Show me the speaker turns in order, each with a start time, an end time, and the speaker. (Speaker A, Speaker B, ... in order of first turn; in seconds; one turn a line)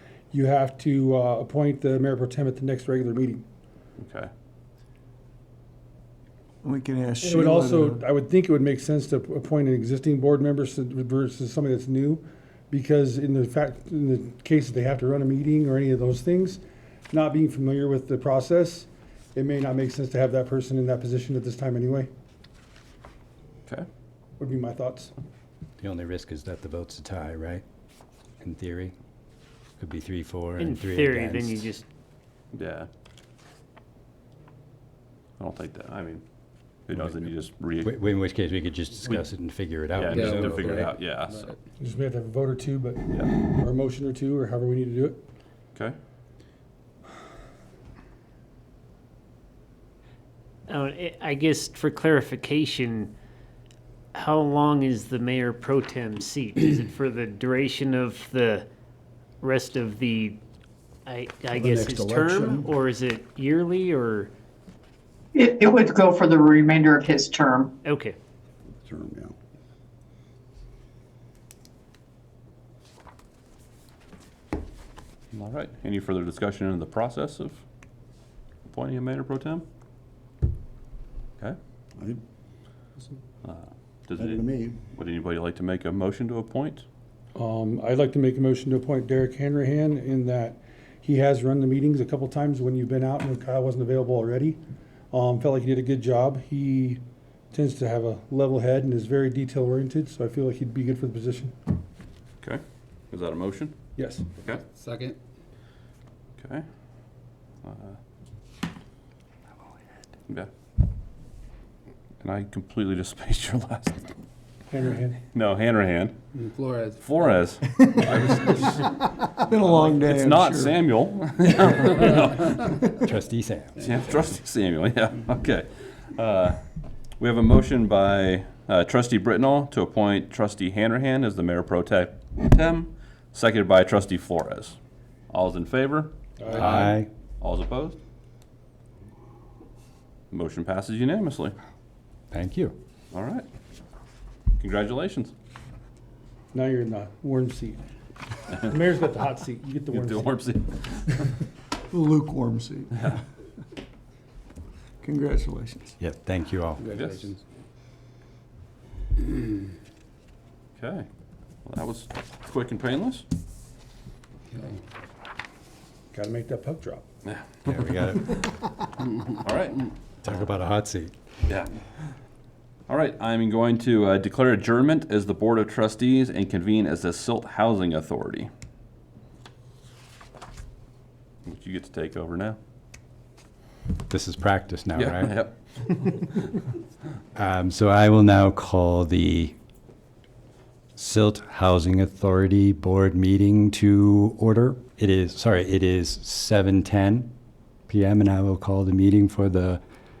Speaker A: 0.3-3.4
Speaker B: 4.0-4.3
Speaker C: 6.6-8.1
Speaker A: 7.2-22.1
Speaker A: 24.4-25.1
Speaker D: 25.8-27.6
Speaker D: 28.4-28.9
Speaker D: 29.8-31.7
Speaker E: 30.6-31.8
Speaker B: 32.5-32.9
Speaker B: 35.4-36.2
Speaker B: 36.9-37.9
Speaker D: 37.8-40.9
Speaker B: 39.9-41.5
Speaker A: 41.8-45.2
Speaker E: 50.7-53.1
Speaker E: 54.1-58.7
Speaker E: 59.4-60.4
Speaker E: 61.0-64.3
Speaker F: 61.5-62.7
Speaker G: 65.3-67.7
Speaker E: 67.8-68.2
Speaker F: 68.7-69.3
Speaker B: 75.3-77.6
Speaker B: 78.7-79.6
Speaker B: 83.4-86.8
Speaker F: 84.2-84.8
Speaker A: 87.3-94.6
Speaker A: 95.1-101.6
Speaker B: 102.4-103.8
Speaker A: 104.0-104.2
Speaker B: 106.4-106.6
Speaker B: 107.6-108.0
Speaker B: 112.2-114.1
Speaker A: 114.7-115.2
Speaker B: 115.3-116.2
Speaker B: 117.0-118.9
Speaker C: 117.8-118.3
Speaker C: 118.8-120.8
Speaker B: 119.6-122.8
Speaker D: 123.0-123.9
Speaker B: 123.8-126.6
Speaker B: 127.2-134.8
Speaker B: 135.3-138.0
Speaker A: 136.4-136.9
Speaker D: 136.6-137.1
Speaker B: 140.3-141.5
Speaker D: 142.3-142.8
Speaker B: 143.1-143.4
Speaker B: 144.6-145.3
Speaker A: 146.5-147.8
Speaker A: 148.7-150.3
Speaker B: 149.9-151.3
Speaker C: 151.9-153.2
Speaker C: 155.0-155.9
Speaker D: 156.0-156.8
Speaker B: 156.8-157.3
Speaker B: 160.8-161.0
Speaker B: 161.6-163.2
Speaker A: 166.1-167.0
Speaker D: 167.6-168.5
Speaker B: 169.4-169.9
Speaker D: 170.2-171.1
Speaker B: 172.9-178.5
Speaker B: 181.4-182.6
Speaker D: 184.1-185.4
Speaker B: 184.9-186.5
Speaker D: 187.3-189.5
Speaker D: 190.9-197.3
Speaker D: 197.9-199.8